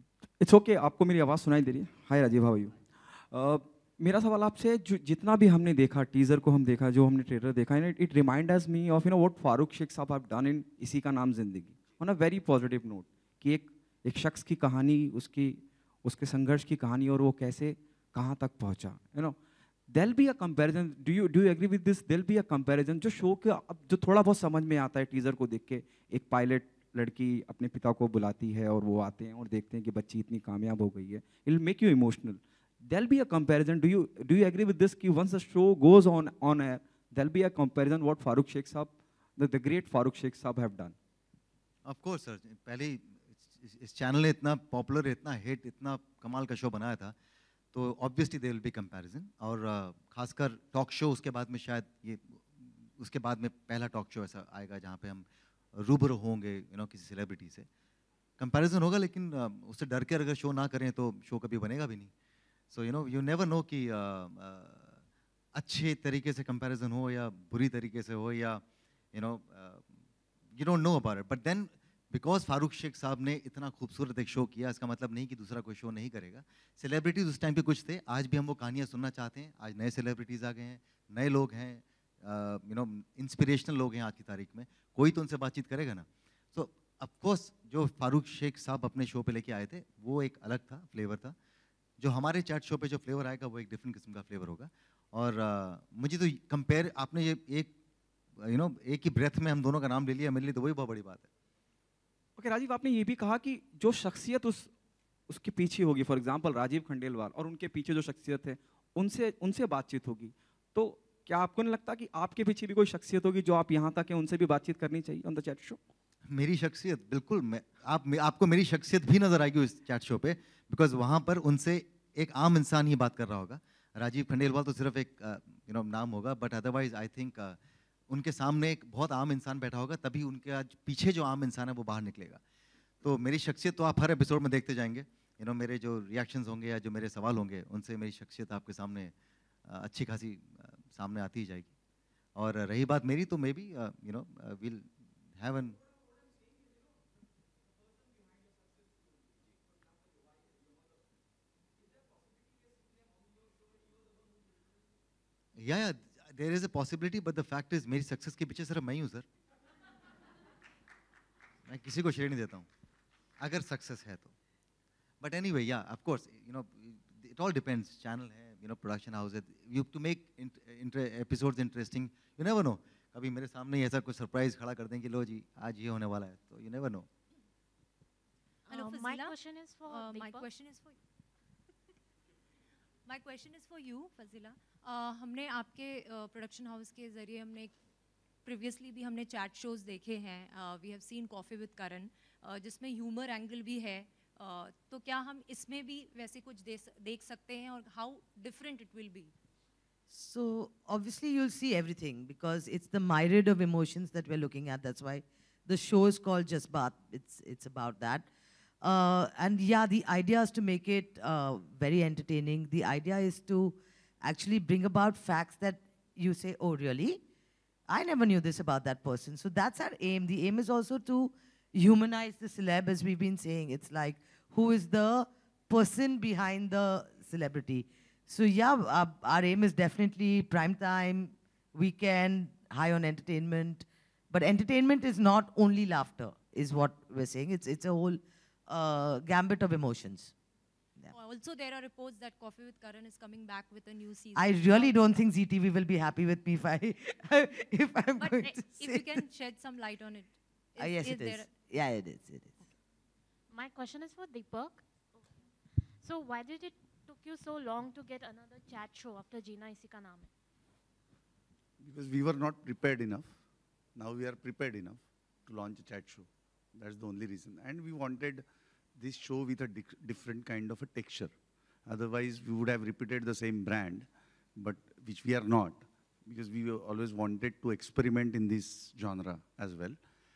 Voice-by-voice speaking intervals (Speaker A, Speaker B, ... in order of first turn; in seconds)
Speaker A: 0.4-41.0, 102.4-104.7, 105.3-115.8
Speaker B: 41.9-47.1, 47.7-57.7, 58.4-62.1, 62.7-65.0, 65.5-70.0, 70.5-91.4, 92.0-97.7, 98.4-101.3, 116.3-132.4, 133.0-139.1, 139.7-141.7, 142.4-145.8, 155.6-159.3, 161.7-162.7, 163.4-164.3, 165.2-177.1
Speaker C: 178.7-181.0, 183.1-187.7, 188.4-199.3, 241.1-245.2, 248.2-251.5
Speaker D: 178.7-180.5, 253.5-260.3
Speaker E: 200.1-208.3, 208.8-217.2, 217.9-240.3, 244.3-249.2, 250.8-252.6
Speaker F: 261.8-263.4, 264.0-268.4, 269.0-271.4, 271.9-280.0